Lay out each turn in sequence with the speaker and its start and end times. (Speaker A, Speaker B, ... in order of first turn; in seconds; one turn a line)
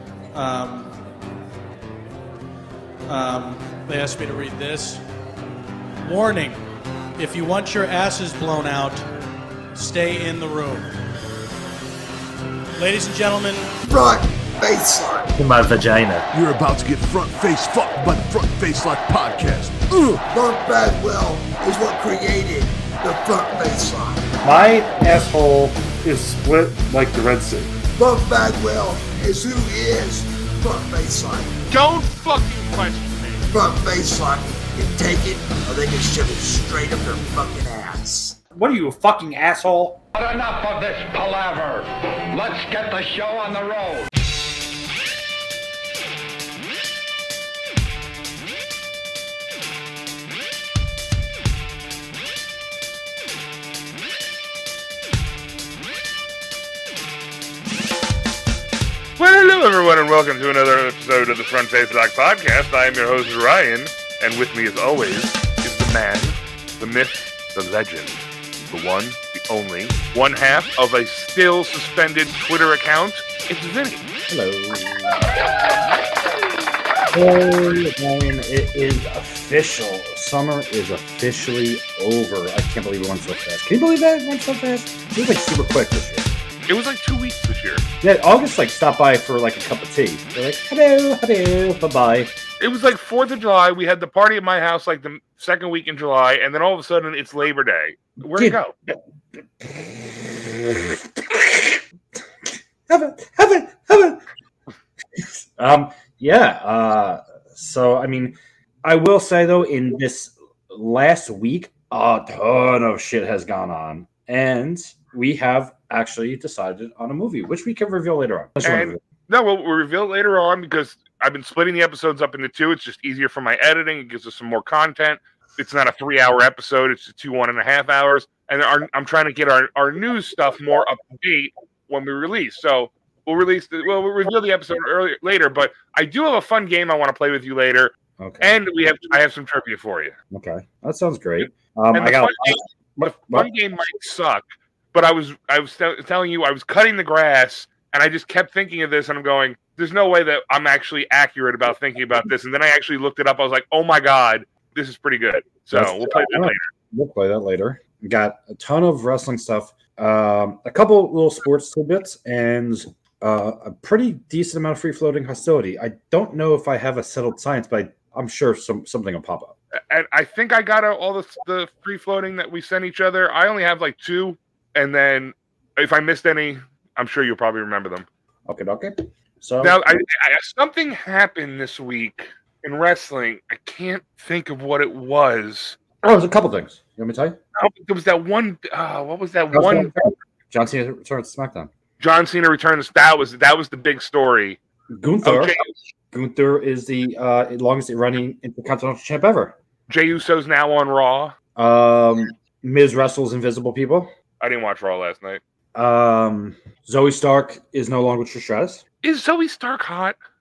Speaker A: 0.3-0.9
Speaker A: 3.1-5.0
Speaker A: 6.0-6.6
Speaker A: 7.2-9.1
Speaker A: 9.7-10.9
Speaker A: 12.8-13.7
Speaker B: 13.9-15.3
Speaker C: 15.3-16.3
Speaker D: 16.3-20.2
Speaker B: 20.3-24.3
Speaker C: 24.4-27.7
Speaker B: 28.0-31.7
Speaker E: 31.7-33.5
Speaker B: 33.5-38.4
Speaker C: 38.5-40.0
Speaker F: 40.1-44.1
Speaker E: 59.2-74.0
Speaker C: 74.3-75.3
Speaker C: 77.1-86.3
Speaker E: 86.7-87.8
Speaker C: 88.0-92.3
Speaker E: 92.6-98.7
Speaker C: 99.6-101.8
Speaker C: 102.9-104.2
Speaker C: 105.2-119.0
Speaker E: 118.6-140.2
Speaker C: 138.2-138.6
Speaker C: 140.3-143.5
Speaker E: 141.9-156.6
Speaker C: 155.7-169.5
Speaker E: 169.9-178.1
Speaker C: 178.5-179.8
Speaker E: 179.6-185.8
Speaker C: 186.0-187.4
Speaker E: 187.6-189.9
Speaker C: 189.5-191.7
Speaker E: 192.0-194.6
Speaker C: 194.9-195.6
Speaker E: 195.2-195.7
Speaker C: 196.1-199.6
Speaker E: 199.9-201.3
Speaker C: 201.6-204.1
Speaker E: 204.4-205.4
Speaker C: 205.8-208.8
Speaker E: 209.0-210.2